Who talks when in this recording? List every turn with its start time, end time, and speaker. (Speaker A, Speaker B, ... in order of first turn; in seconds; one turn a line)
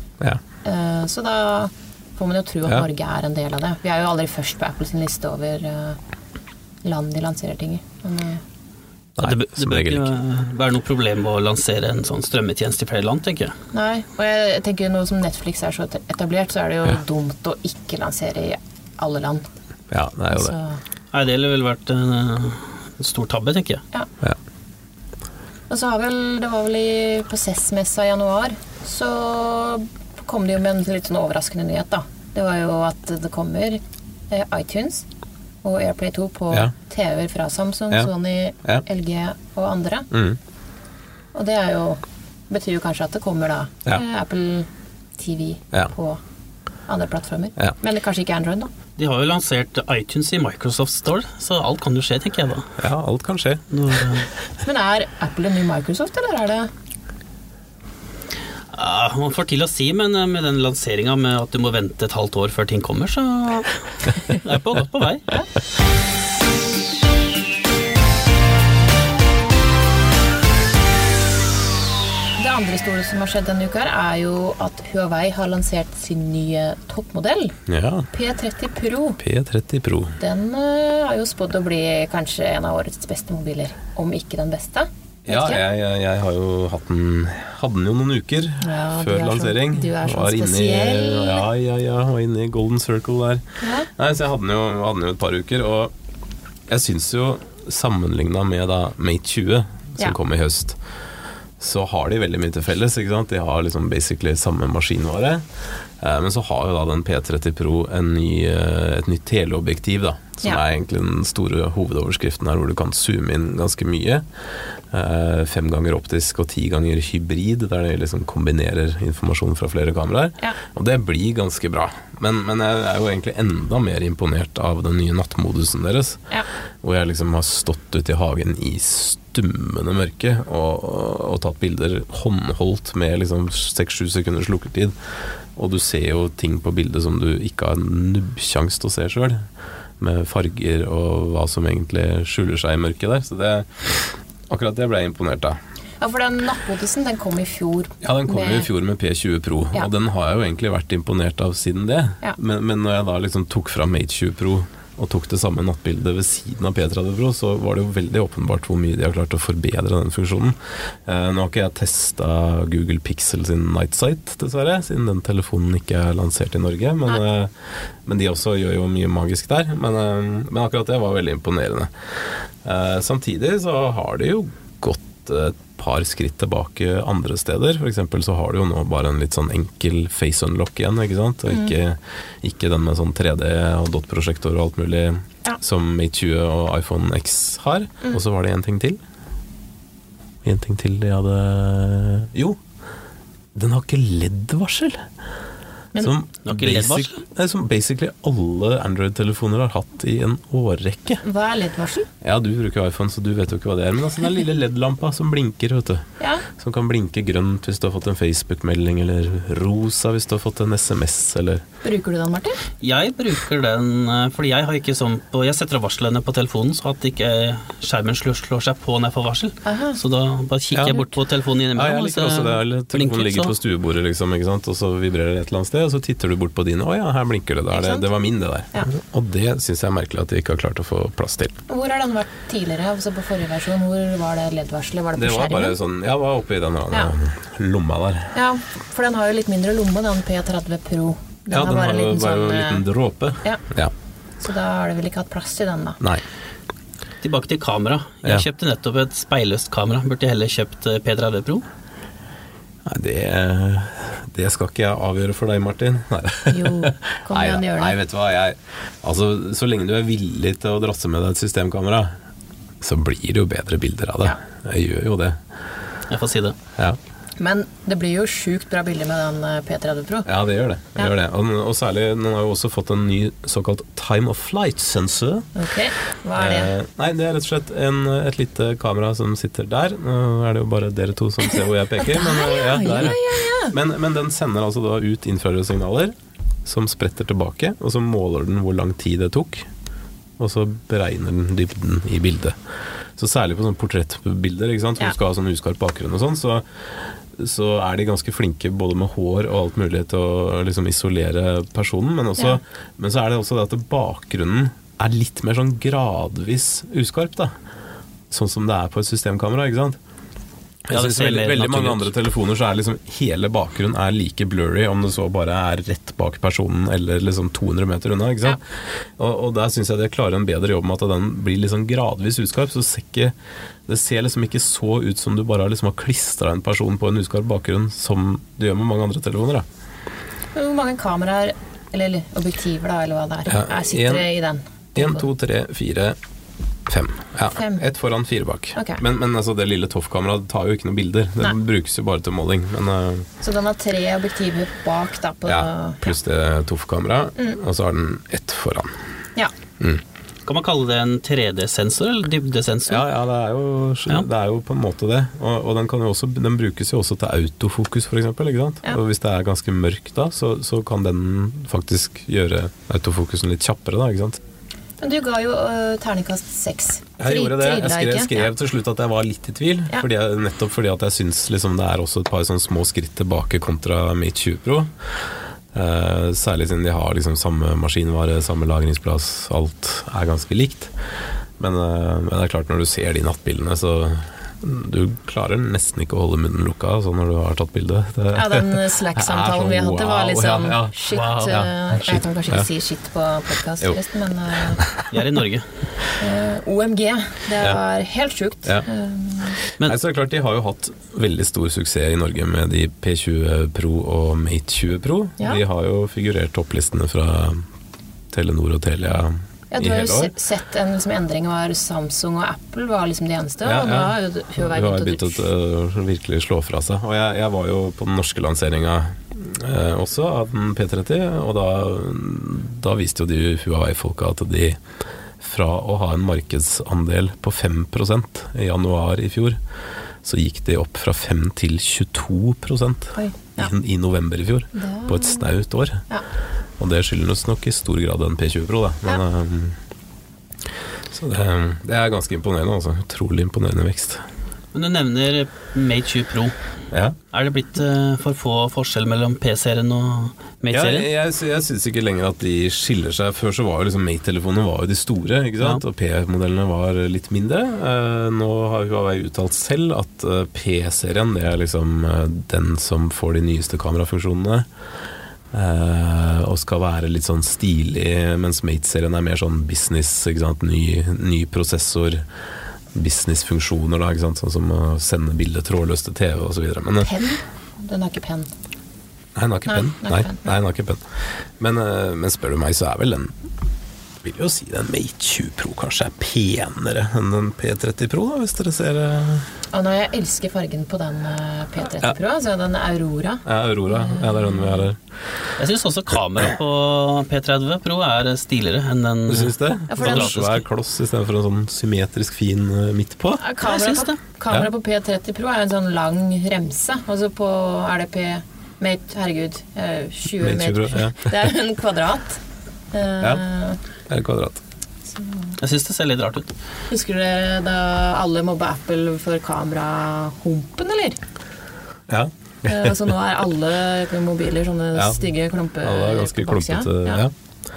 Speaker A: 0.6-6.0
Speaker A: 6.8-8.4
Speaker B: 9.2-13.6
Speaker C: 9.2-10.1
Speaker A: 13.7-19.5
Speaker C: 19.9-20.6
Speaker A: 20.3-20.8
Speaker B: 21.1-23.8
Speaker A: 25.7-35.0
Speaker A: 35.6-40.1
Speaker C: 40.1-40.4
Speaker A: 41.3-46.2
Speaker A: 46.9-48.7
Speaker B: 49.0-52.8
Speaker C: 52.8-53.6
Speaker B: 53.7-54.3
Speaker A: 54.6-56.7
Speaker B: 58.7-65.3
Speaker A: 72.4-77.6
Speaker C: 77.7-78.1
Speaker A: 78.1-79.2
Speaker C: 79.2-80.2
Speaker A: 80.2-85.6
Speaker C: 85.3-93.4
Speaker A: 88.6-91.5
Speaker A: 93.6-93.9
Speaker C: 94.0-95.9
Speaker C: 96.7-100.8
Speaker C: 101.6-105.5
Speaker C: 106.0-114.2
Speaker C: 114.9-126.2
Speaker C: 126.8-134.9
Speaker C: 135.6-139.4
Speaker C: 140.0-145.6
Speaker A: 146.0-148.7
Speaker C: 148.0-167.5
Speaker C: 168.1-171.9
Speaker C: 172.6-189.0
Speaker C: 190.4-192.6
Speaker C: 193.6-195.1
Speaker C: 196.0-201.2
Speaker B: 196.4-197.2
Speaker A: 201.2-202.1
Speaker C: 202.2-211.6
Speaker A: 206.2-206.4
Speaker A: 211.8-212.6
Speaker B: 212.8-223.5
Speaker A: 219.7-220.0
Speaker C: 220.7-221.1
Speaker C: 221.7-231.6
Speaker A: 227.7-228.1
Speaker A: 231.7-235.8
Speaker C: 235.2-238.3
Speaker A: 238.3-242.9
Speaker C: 241.5-243.9
Speaker A: 244.4-246.0
Speaker B: 247.2-251.7
Speaker C: 252.9-262.1
Speaker A: 256.5-257.9
Speaker C: 262.8-265.4
Speaker B: 266.1-266.6
Speaker A: 267.4-270.3
Speaker C: 270.3-275.5
Speaker A: 275.6-276.7
Speaker C: 276.4-286.1
Speaker A: 282.0-283.8
Speaker C: 286.6-289.7
Speaker C: 290.4-292.6
Speaker C: 293.2-296.6
Speaker C: 297.4-307.6
Speaker C: 308.3-310.0
Speaker C: 310.9-318.6
Speaker B: 310.9-312.1
Speaker C: 319.2-323.3
Speaker C: 323.9-329.7
Speaker A: 330.6-335.2
Speaker C: 333.5-334.3
Speaker C: 334.9-336.2
Speaker C: 336.9-343.3
Speaker A: 337.5-337.8
Speaker A: 338.8-339.0
Speaker A: 343.4-346.1
Speaker C: 345.4-349.0
Speaker B: 350.4-353.1
Speaker C: 352.9-364.4
Speaker A: 365.0-368.5
Speaker C: 367.2-374.9
Speaker C: 375.7-380.9
Speaker C: 381.6-392.7
Speaker A: 388.3-394.8
Speaker B: 391.1-391.6
Speaker C: 394.8-395.1
Speaker B: 395.1-395.7
Speaker A: 396.2-399.6
Speaker C: 399.8-407.6
Speaker C: 408.3-410.3
Speaker A: 409.7-415.5
Speaker C: 413.6-424.8
Speaker C: 425.4-429.6
Speaker C: 430.2-436.0
Speaker A: 433.1-433.7
Speaker A: 434.7-435.5
Speaker C: 436.8-439.8
Speaker C: 441.1-444.2
Speaker B: 444.7-446.6
Speaker C: 446.9-447.2
Speaker B: 447.3-451.1
Speaker C: 450.7-464.7
Speaker C: 465.5-472.2
Speaker C: 472.9-477.1
Speaker A: 477.0-478.5
Speaker C: 479.4-481.0
Speaker A: 479.7-480.5
Speaker C: 481.6-483.3
Speaker C: 484.2-489.5
Speaker A: 489.7-494.7
Speaker C: 493.4-495.0
Speaker B: 495.6-500.6
Speaker C: 499.3-503.4
Speaker A: 499.9-500.3
Speaker A: 503.4-512.4
Speaker B: 503.6-504.1
Speaker C: 510.4-511.3
Speaker A: 512.9-513.8
Speaker C: 514.1-514.6
Speaker A: 515.1-515.6
Speaker B: 515.6-516.5
Speaker A: 516.9-521.2
Speaker C: 522.1-523.0
Speaker A: 522.6-527.2
Speaker C: 525.0-525.2
Speaker C: 525.8-527.3